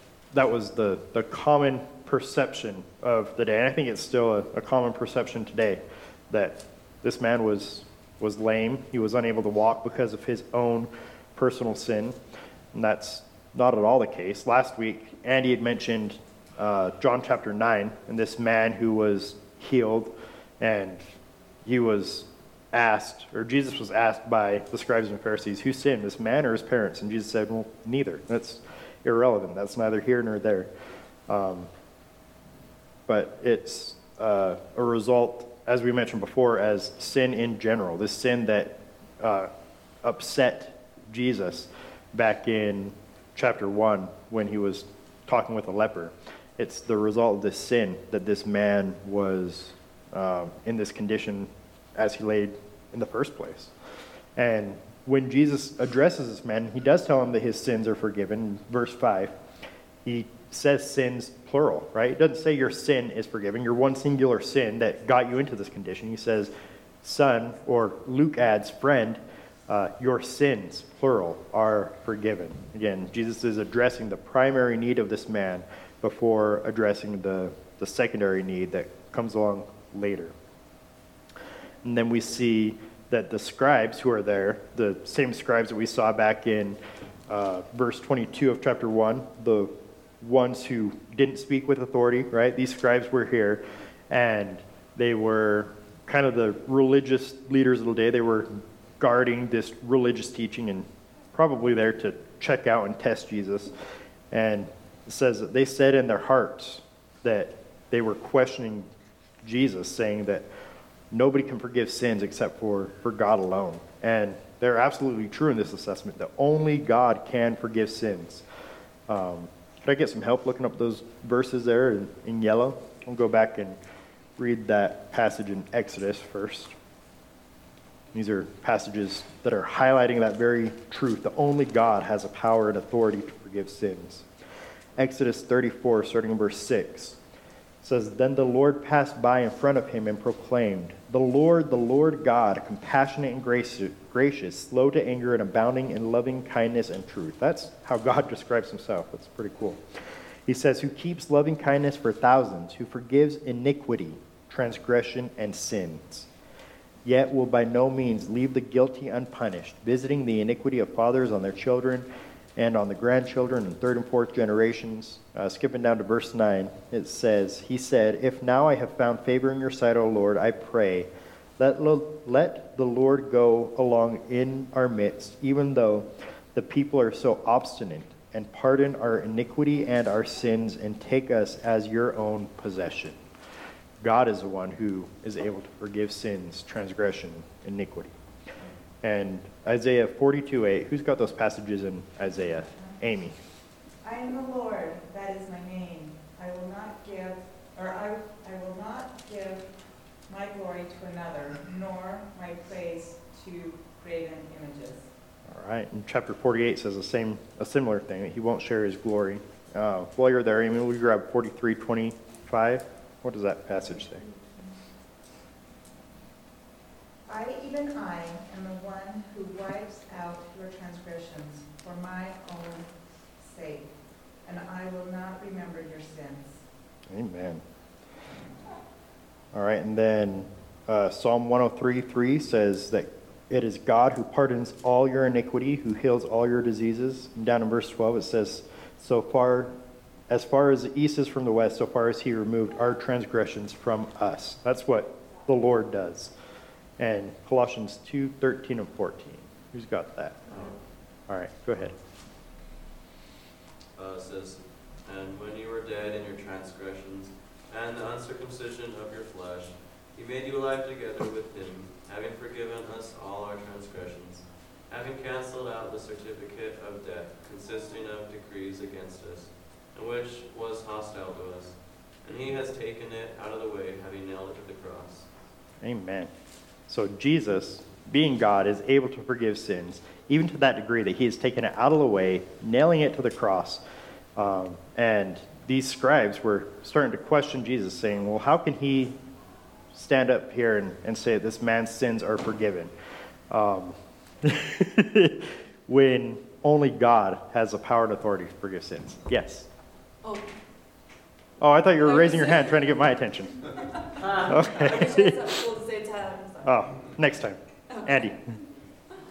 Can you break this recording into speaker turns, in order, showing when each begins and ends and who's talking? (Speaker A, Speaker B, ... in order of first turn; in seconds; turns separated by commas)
Speaker A: 0.3-12.2, Speaker A: 12.7-21.0, Speaker A: 21.6-30.7, Speaker A: 31.3-31.7, Speaker A: 33.1-39.5, Speaker A: 40.0-53.7, Speaker A: 54.4-59.3, Speaker A: 60.0-66.5, Speaker A: 67.0-80.3, Speaker A: 81.8-103.7, Speaker A: 104.3-108.9, Speaker A: 109.4-110.5, Speaker A: 111.1-118.4, Speaker A: 119.1-123.8, Speaker A: 124.4-126.7, Speaker A: 128.1-134.2, Speaker A: 135.0-137.2, Speaker A: 137.8-149.8, Speaker A: 150.5-156.3, Speaker A: 157.1-183.2, Speaker A: 184.0-188.1, Speaker A: 189.0-193.3, Speaker B: 194.0-199.8, Speaker B: 200.3-205.1, Speaker A: 205.5-214.2, Speaker B: 217.3-223.9, Speaker B: 224.4-226.6, Speaker A: 227.1-227.6, Speaker A: 229.5-239.8, Speaker A: 240.3-246.3, Speaker A: 247.0-250.7, Speaker C: 250.5-250.7, Speaker D: 250.5-250.8, Speaker A: 251.3-251.9, Speaker C: 253.9-275.4, Speaker A: 275.8-276.3, Speaker A: 276.9-283.8, Speaker A: 284.4-289.2, Speaker A: 289.9-292.9, Speaker A: 293.5-299.7, Speaker D: 300.2-300.5, Speaker A: 301.6-303.8, Speaker D: 301.9-303.1, Speaker D: 303.7-307.1, Speaker A: 304.4-305.4, Speaker A: 306.6-308.4, Speaker D: 307.9-308.6